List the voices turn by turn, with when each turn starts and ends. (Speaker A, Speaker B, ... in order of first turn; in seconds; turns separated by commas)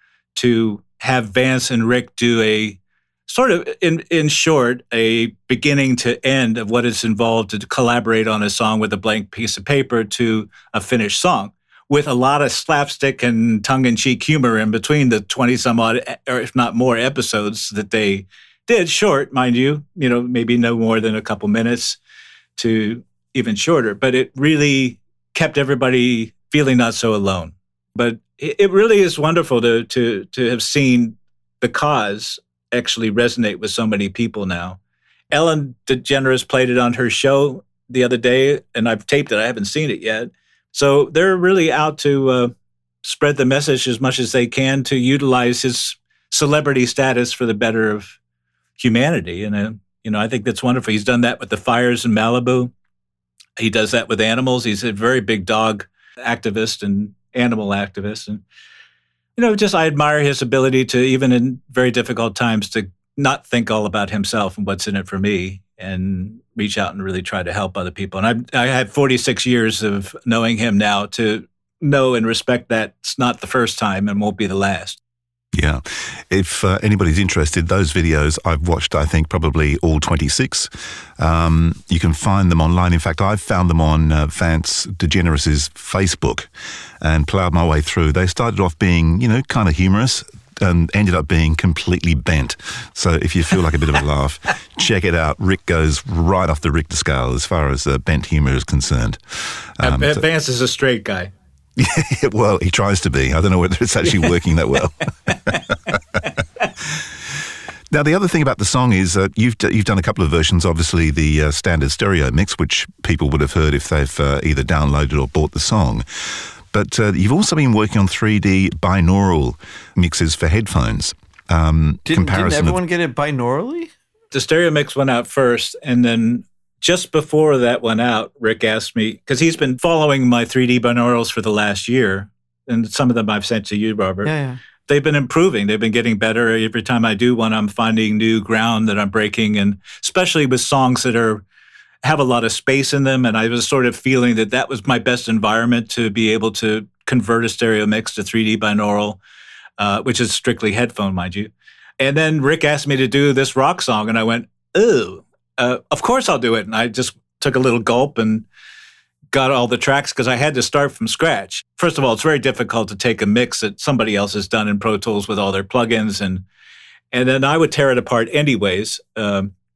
Speaker A: 0.3-22.0, Speaker A: 22.6-34.8, Speaker A: 35.3-42.5, Speaker A: 43.0-48.2, Speaker A: 48.8-52.7, Speaker A: 53.6-58.4, Speaker A: 59.4-75.0, Speaker B: 75.5-86.5, Speaker B: 87.0-100.2, Speaker A: 99.8-101.3, Speaker B: 101.8-106.2, Speaker B: 107.9-122.8, Speaker C: 122.1-123.9, Speaker A: 124.3-134.3, Speaker C: 134.2-134.6, Speaker A: 134.9-141.4, Speaker A: 142.0-149.2, Speaker A: 149.8-158.4, Speaker A: 159.3-166.4, Speaker A: 167.1-169.5